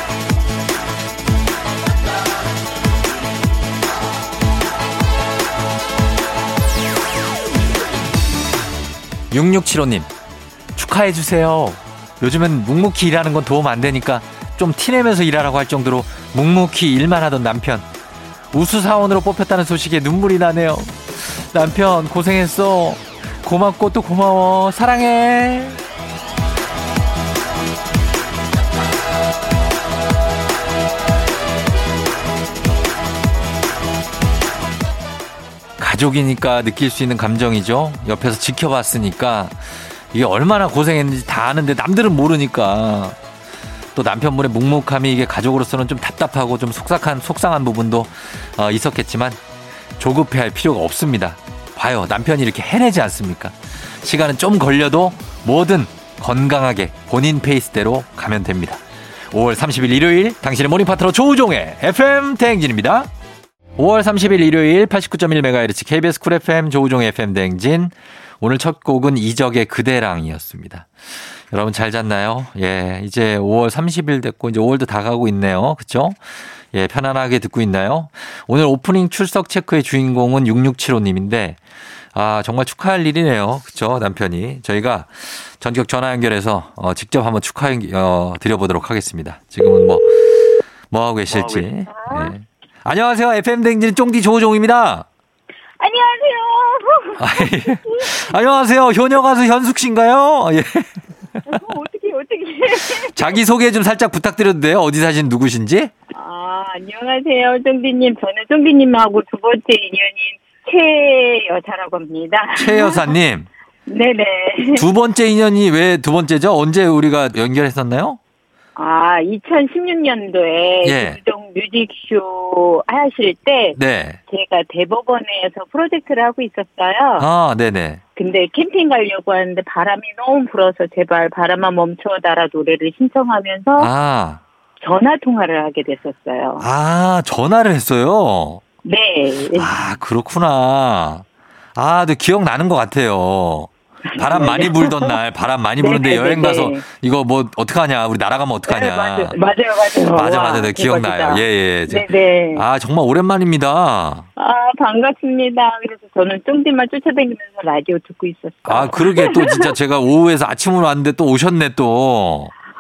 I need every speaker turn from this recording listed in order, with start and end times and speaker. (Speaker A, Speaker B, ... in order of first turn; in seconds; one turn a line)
Speaker A: 9.3-10.1
Speaker A: 10.8-17.9
Speaker A: 18.5-25.8
Speaker A: 35.8-43.2
Speaker A: 44.0-49.4
Speaker A: 50.0-63.1
Speaker A: 63.8-70.9
Speaker A: 71.5-76.2
Speaker A: 76.7-81.6
Speaker A: 82.1-95.1
Speaker B: 91.9-92.3
Speaker B: 95.8-98.3
Speaker A: 97.2-101.6
Speaker B: 101.5-103.2
Speaker A: 102.8-105.9
Speaker B: 106.1-113.1
Speaker A: 112.6-113.5
Speaker B: 113.9-114.8
Speaker A: 114.8-118.2
Speaker B: 118.8-127.3
Speaker A: 120.8-121.2
Speaker A: 123.8-124.2
Speaker A: 127.2-128.0
Speaker B: 128.2-133.9
Speaker A: 133.8-134.4
Speaker B: 134.8-136.7
Speaker A: 136.6-138.6
Speaker B: 138.8-139.7
Speaker A: 139.5-149.4
Speaker B: 144.1-145.2
Speaker B: 145.8-146.8
Speaker B: 148.7-152.7
Speaker A: 150.1-154.3
Speaker B: 154.4-159.8
Speaker A: 158.7-162.5